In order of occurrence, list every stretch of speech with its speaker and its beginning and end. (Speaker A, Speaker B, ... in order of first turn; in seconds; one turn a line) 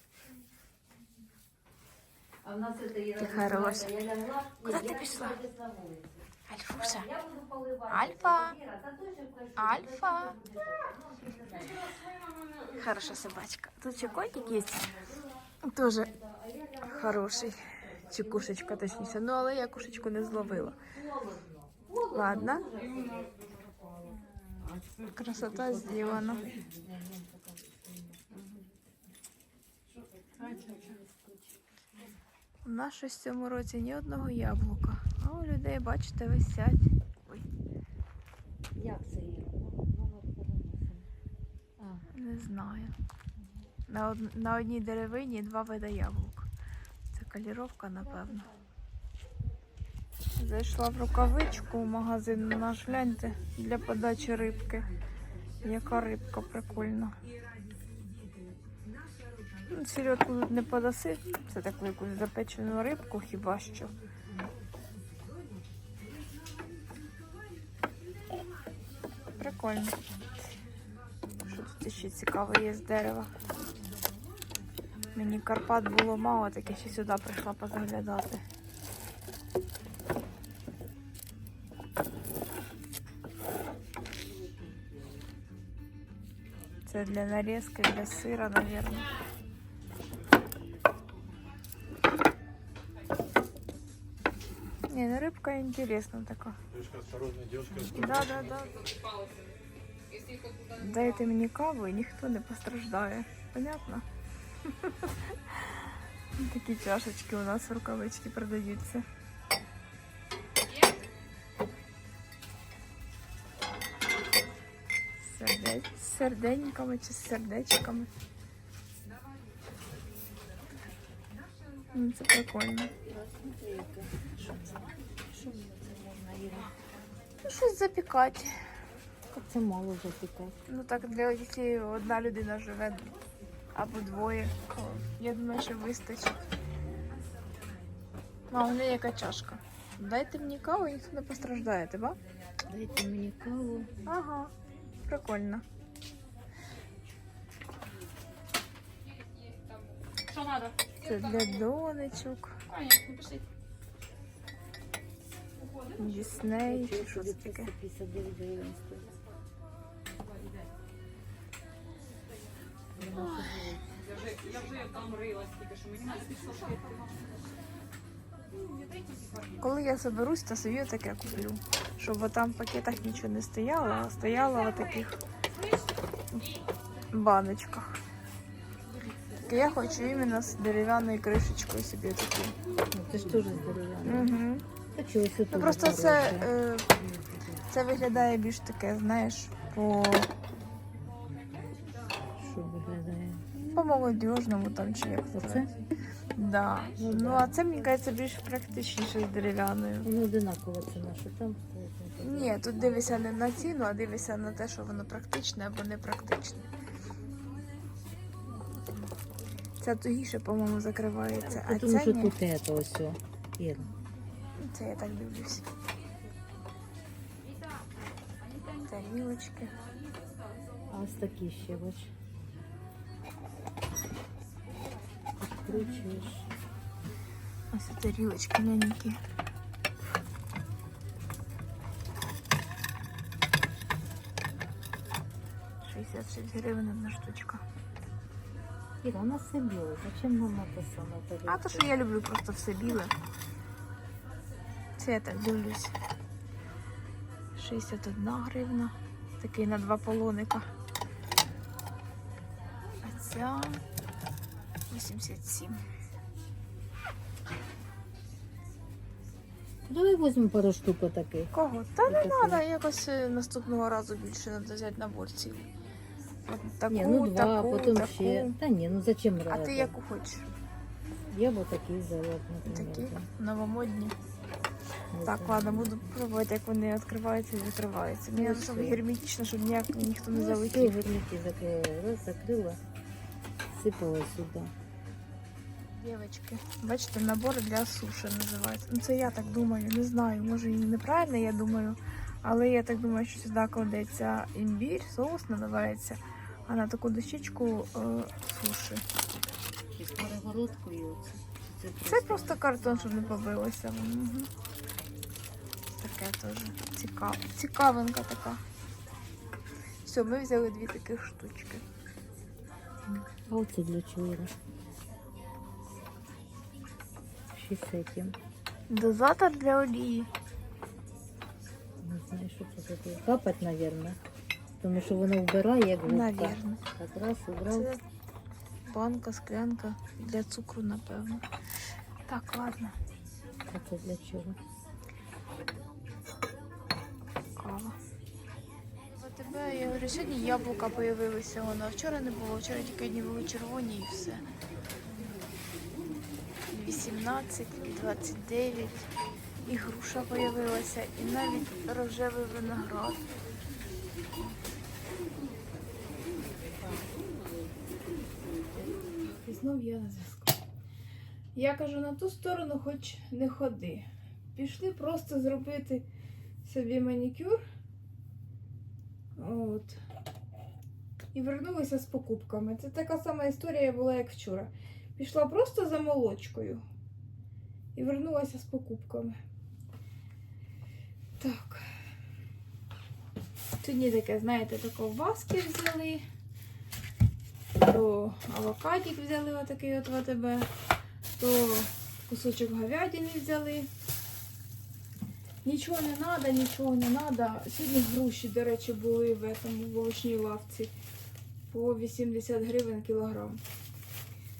Speaker A: 2.4-12.0
Speaker B: 3.2-3.9
Speaker B: 4.6-5.4
Speaker B: 6.5-7.1
Speaker B: 7.9-8.6
Speaker B: 9.6-10.4
Speaker C: 11.7-12.9
Speaker B: 12.7-15.0
Speaker A: 13.9-15.4
Speaker B: 15.6-16.1
Speaker A: 15.9-23.4
Speaker B: 16.8-20.8
Speaker B: 22.1-22.7
Speaker C: 22.8-26.8
Speaker A: 24.0-24.8
Speaker B: 25.1-26.5
Speaker A: 25.9-28.5
Speaker A: 29.9-31.6
Speaker B: 32.6-37.5
Speaker A: 38.8-41.1
Speaker A: 41.8-42.1
Speaker B: 42.1-42.9
Speaker B: 43.9-46.5
Speaker B: 47.1-48.5
Speaker A: 48.0-48.5
Speaker B: 50.3-54.9
Speaker B: 55.6-57.2
Speaker B: 59.7-64.0
Speaker B: 69.4-70.0
Speaker B: 71.4-73.3
Speaker B: 75.1-78.4
Speaker B: 86.9-89.1
Speaker B: 94.9-96.6
Speaker B: 97.7-98.9
Speaker C: 100.3-100.6
Speaker B: 100.7-104.0
Speaker B: 104.6-105.8
Speaker B: 106.4-109.0
Speaker B: 115.2-118.1
Speaker B: 121.9-122.9
Speaker A: 123.0-126.7
Speaker B: 127.4-128.5
Speaker A: 129.3-130.6
Speaker B: 130.7-133.1
Speaker B: 133.7-136.4
Speaker B: 138.5-142.2
Speaker A: 142.7-143.9
Speaker B: 144.1-144.5
Speaker B: 145.1-145.6
Speaker C: 150.3-150.8
Speaker B: 150.9-152.7
Speaker C: 152.8-153.4
Speaker B: 155.9-157.7
Speaker A: 156.5-159.1
Speaker A: 162.9-164.2
Speaker B: 163.2-163.7
Speaker C: 164.3-166.9
Speaker B: 169.6-175.2
Speaker B: 177.1-178.0
Speaker B: 179.4-182.6
Speaker A: 182.9-184.3
Speaker B: 184.1-184.7
Speaker A: 184.9-186.5
Speaker B: 185.5-186.9
Speaker B: 187.6-190.3
Speaker A: 192.4-193.4
Speaker B: 193.7-195.7
Speaker A: 195.3-195.7
Speaker B: 196.3-200.1
Speaker A: 196.9-197.5
Speaker A: 200.0-203.0
Speaker B: 202.2-206.7
Speaker B: 209.8-212.4
Speaker A: 211.4-213.9
Speaker B: 214.6-215.7
Speaker B: 218.8-219.7
Speaker A: 220.9-222.1
Speaker A: 225.4-226.5
Speaker B: 227.7-229.2
Speaker B: 235.8-237.6
Speaker A: 239.0-241.9
Speaker B: 241.5-243.1
Speaker B: 245.0-245.9
Speaker B: 247.6-250.7
Speaker B: 253.0-253.8
Speaker B: 254.9-255.8
Speaker A: 259.9-261.5
Speaker B: 261.5-265.7
Speaker A: 262.1-262.6
Speaker B: 266.5-268.6
Speaker A: 266.9-270.0
Speaker B: 269.5-270.5
Speaker A: 271.3-273.3
Speaker B: 272.6-274.1
Speaker A: 275.1-276.0
Speaker B: 275.2-281.0
Speaker A: 278.3-279.0
Speaker A: 280.3-282.8
Speaker A: 283.7-284.7
Speaker B: 285.9-299.0
Speaker A: 299.9-303.4
Speaker B: 302.0-304.5
Speaker B: 306.0-308.6
Speaker B: 310.1-311.8
Speaker A: 313.1-314.5
Speaker A: 317.5-318.4
Speaker B: 318.9-320.3
Speaker A: 322.0-324.2
Speaker A: 324.8-327.9
Speaker B: 326.0-326.8
Speaker B: 327.7-328.0
Speaker B: 328.9-331.4
Speaker B: 332.2-333.0
Speaker A: 333.7-334.6
Speaker B: 337.6-338.0
Speaker B: 339.1-344.4
Speaker B: 346.7-349.1
Speaker B: 349.6-353.3
Speaker A: 356.7-357.3
Speaker B: 359.1-360.6
Speaker B: 361.6-366.1
Speaker B: 366.6-367.6
Speaker B: 369.4-370.0
Speaker B: 371.3-376.8
Speaker B: 377.9-379.4
Speaker B: 381.4-381.9
Speaker B: 383.8-386.2
Speaker B: 387.8-390.7
Speaker B: 391.4-393.9
Speaker B: 395.6-400.9
Speaker B: 401.7-403.6